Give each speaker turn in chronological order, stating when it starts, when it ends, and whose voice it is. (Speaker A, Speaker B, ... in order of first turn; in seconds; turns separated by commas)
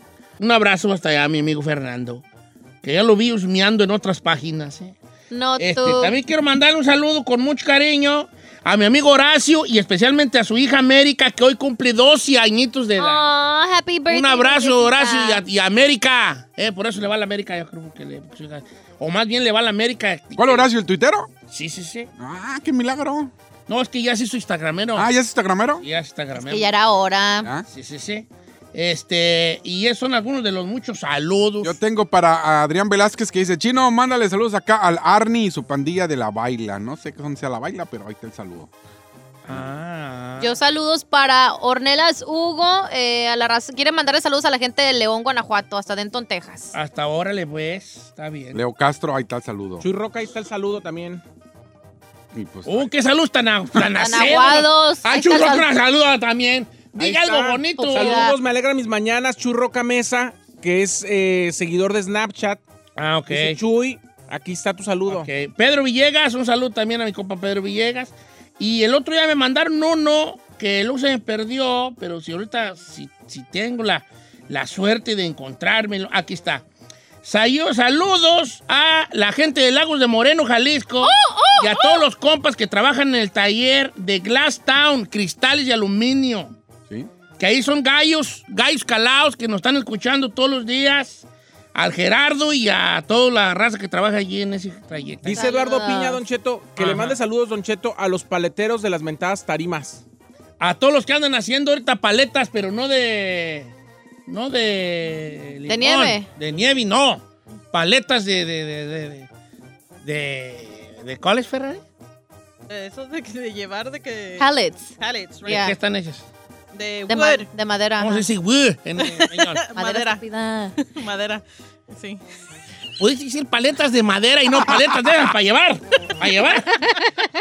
Speaker A: 0.4-2.2, Speaker A: 2.8-5.0, Speaker B: 5.3-6.2, Speaker A: 5.6-13.3, Speaker B: 13.0-15.4, Speaker A: 14.1-20.7, Speaker C: 20.4-21.3, Speaker A: 21.5-22.1, Speaker C: 22.2-23.3, Speaker A: 23.7-25.1, Speaker C: 24.9-25.8, Speaker A: 25.8-26.8, Speaker B: 26.4-27.5, Speaker A: 27.7-31.8, Speaker C: 31.6-38.7, Speaker A: 39.5-40.6, Speaker B: 40.4-46.7, Speaker A: 46.7-48.6, Speaker C: 48.5-49.9, Speaker D: 49.8-51.2, Speaker C: 52.3-52.9, Speaker A: 52.6-58.3, Speaker B: 54.0-55.7, Speaker D: 57.0-62.6, Speaker B: 57.8-58.4, Speaker A: 63.0-63.6, Speaker D: 63.3-65.3, Speaker A: 65.1-76.7, Speaker A: 77.2-86.5, Speaker B: 81.0-82.0, Speaker A: 87.4-95.5, Speaker D: 95.2-100.0, Speaker B: 95.4-96.2, Speaker C: 96.8-97.2, Speaker A: 100.6-103.7, Speaker A: 104.3-109.3, Speaker B: 105.7-106.3, Speaker A: 110.0-111.8, Speaker E: 112.7-115.7, Speaker B: 114.4-115.8, Speaker A: 115.5-116.3, Speaker E: 116.7-117.5, Speaker B: 117.1-118.2, Speaker A: 118.0-119.6, Speaker E: 119.0-120.2, Speaker B: 119.8-120.8, Speaker E: 120.8-122.2, Speaker A: 123.0-126.9, Speaker B: 126.8-127.1